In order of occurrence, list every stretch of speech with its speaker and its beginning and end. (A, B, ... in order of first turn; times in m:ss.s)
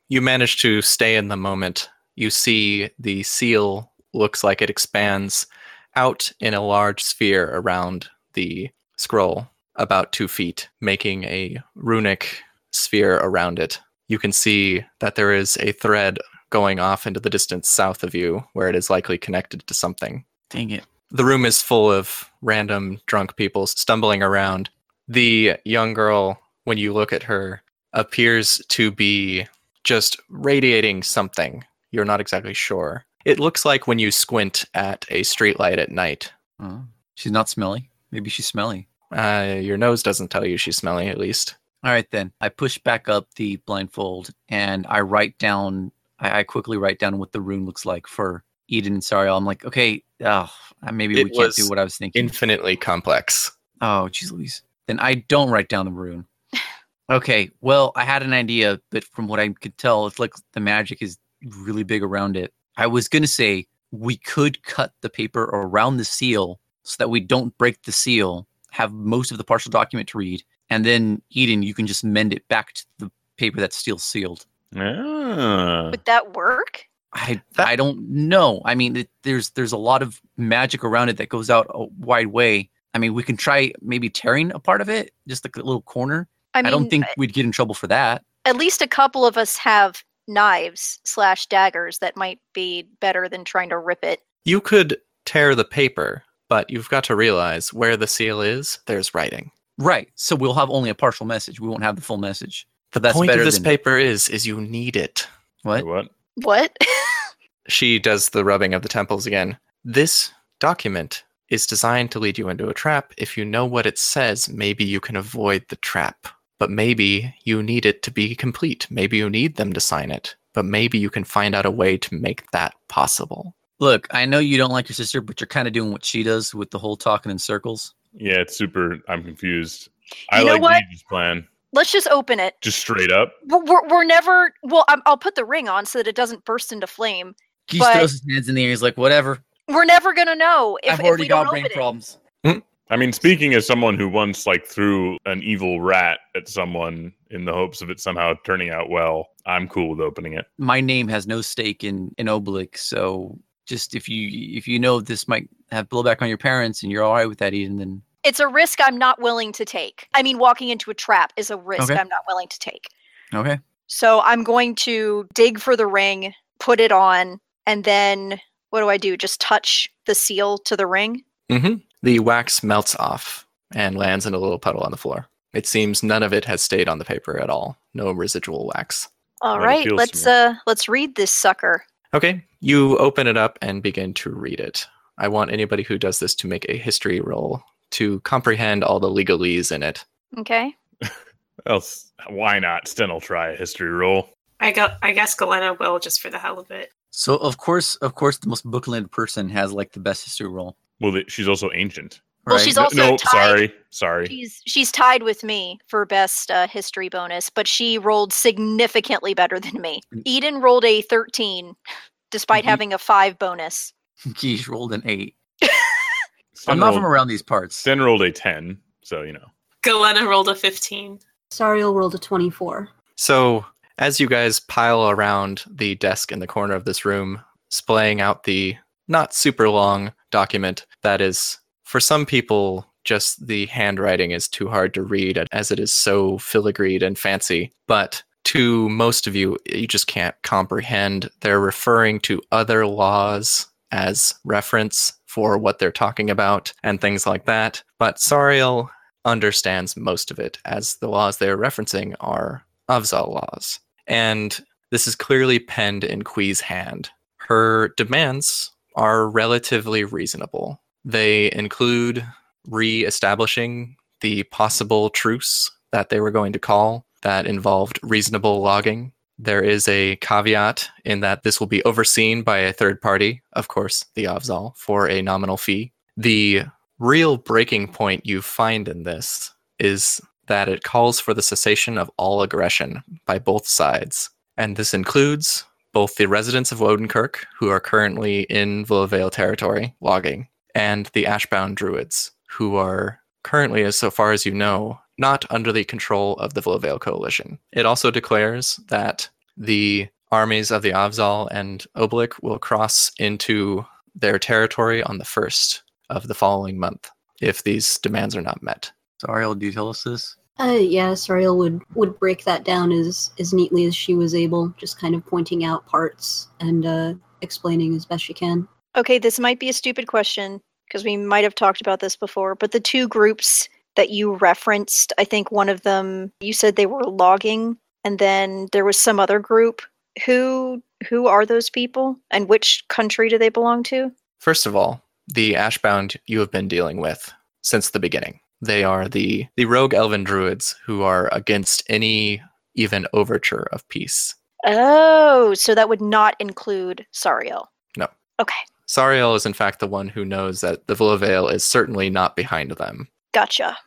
0:00.1-0:20.2 A
0:20.5-0:20.9 B
0:21.1-0:36.3 A
0:36.6-0:38.9 B
0:39.1-0:41.6 A
0:41.8-0:52.4 B
0:51.1-0:53.5 A
0:53.8-0:56.3 B
0:57.1-1:14.5 B
1:14.7-1:16.0 C
1:15.9-1:16.9 D
1:17.1-1:28.2 B
1:26.5-1:27.2 D
1:28.4-1:34.2 D
1:34.4-1:39.5 A
1:39.8-1:43.8 B
1:42.9-1:45.3 A
1:45.8-1:46.1 C
1:46.4-1:47.2 D
1:47.7-2:03.5 A
2:03.8-2:07.9 B
2:08.2-2:11.5 C
2:10.3-2:10.8 D
2:11.7-2:12.6 D
2:12.6-2:13.4 C
2:13.4-2:18.1 D
2:17.7-2:19.4 B
2:19.7-2:21.9 D
2:20.9-2:22.2 B
2:22.9-2:30.5 C
2:30.6-2:38.0 B
2:38.2-2:42.9 D
2:41.8-2:42.0 B
2:43.3-2:43.6 B
2:43.9-2:51.2 D
2:51.5-2:59.1 A
2:59.4-3:01.8 D
2:59.6-3:00.3 C
3:02.1-3:10.0 A
3:10.4-3:10.7 D
3:11.7-3:14.3 C
3:14.6-3:16.9 E
3:17.1-3:20.8 B
3:21.0-3:24.3 C
3:22.5-3:22.8 B
3:22.5-3:23.6 D
3:24.3-3:31.8 D
3:32.3-3:33.9 D
3:32.5-3:32.8 B
3:34.3-3:35.3 B
3:36.6-3:37.1 C
3:36.7-3:37.9 B
3:37.8-3:39.5 C
3:39.8-3:41.2 E
3:41.5-3:42.9 F
3:43.2-5:08.9 A
5:09.2-5:10.4 B
5:10.6-5:18.7 F
5:19.0-5:34.1 D
5:34.4-5:44.4 A
5:44.6-5:47.7 D
5:48.9-5:53.1 A
5:53.3-5:53.8 D